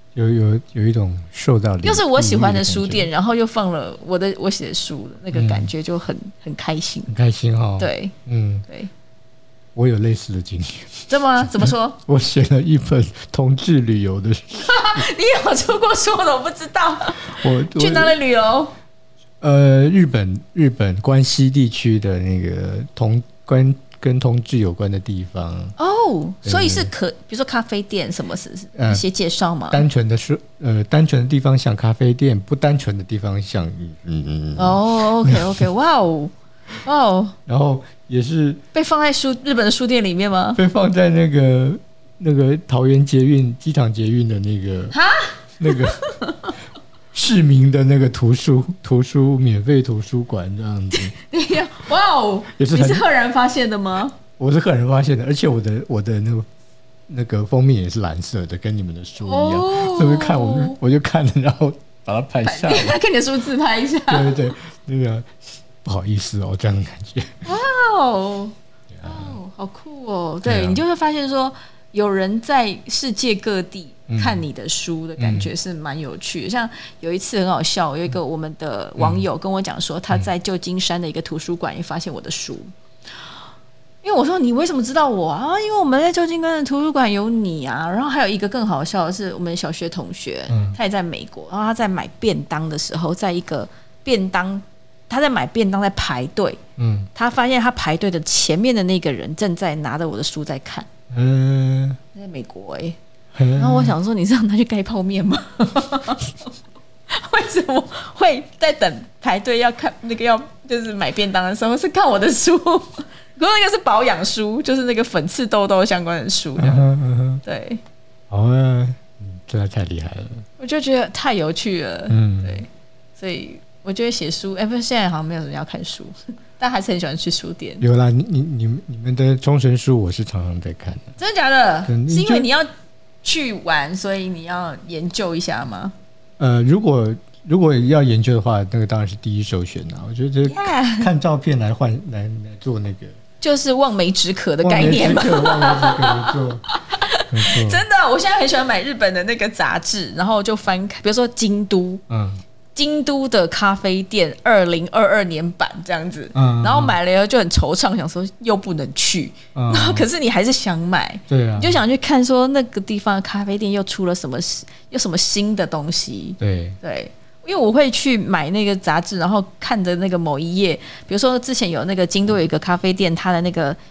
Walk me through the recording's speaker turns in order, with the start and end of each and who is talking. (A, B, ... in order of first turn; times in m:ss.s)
0:00.1-0:03.1 A
0:01.8-0:07.2 B
0:05.3-0:05.7 A
0:07.1-0:08.6 A
0:07.8-0:08.1 B
0:09.7-0:15.0 A
0:11.1-0:12.0 B
0:14.6-0:18.7 B
0:17.2-0:18.2 A
0:19.4-0:25.7 A
0:25.8-0:29.8 B
0:26.4-0:26.9 A
0:28.7-0:29.0 A
0:29.7-0:35.7 A
0:34.6-0:37.4 B
0:37.5-0:38.6 A
0:38.7-0:40.6 B
0:40.5-0:45.0 A
0:44.9-0:46.5 B
0:45.6-0:46.0 A
0:47.1-0:51.1 A
0:50.9-0:54.2 B
0:52.6-0:53.1 A
0:54.4-0:56.4 A
0:57.1-1:03.0 A
0:59.2-1:00.8 B
1:02.4-1:04.5 B
1:04.1-1:07.5 A
1:07.4-1:22.7 B
1:08.9-1:09.4 A
1:10.4-1:10.8 A
1:14.1-1:14.4 A
1:15.2-1:15.5 A
1:19.0-1:19.2 A
1:24.0-1:36.6 B
1:30.5-1:30.8 A
1:36.8-1:37.1 A
1:37.1-1:40.9 B
1:41.1-1:42.0 A
1:42.1-1:43.0 B
1:43.3-1:44.0 A
1:43.6-1:46.5 B
1:47.1-1:56.9 B
1:56.6-1:57.4 A
1:57.4-1:57.8 B
1:58.3-2:00.4 A
2:00.6-2:07.8 B
2:02.1-2:02.6 A
2:07.8-2:11.2 A
2:11.2-2:12.7 B
2:11.8-2:12.5 A
2:13.2-2:15.9 B
2:16.4-2:23.2 A
2:20.5-2:21.1 B
2:23.4-2:32.0 B
2:24.6-2:26.6 A
2:27.3-2:27.8 A
2:32.1-2:32.4 A
2:32.7-2:53.8 B
2:36.3-2:37.0 A
2:39.5-2:40.1 A
2:41.3-2:41.8 A
2:46.4-2:46.8 A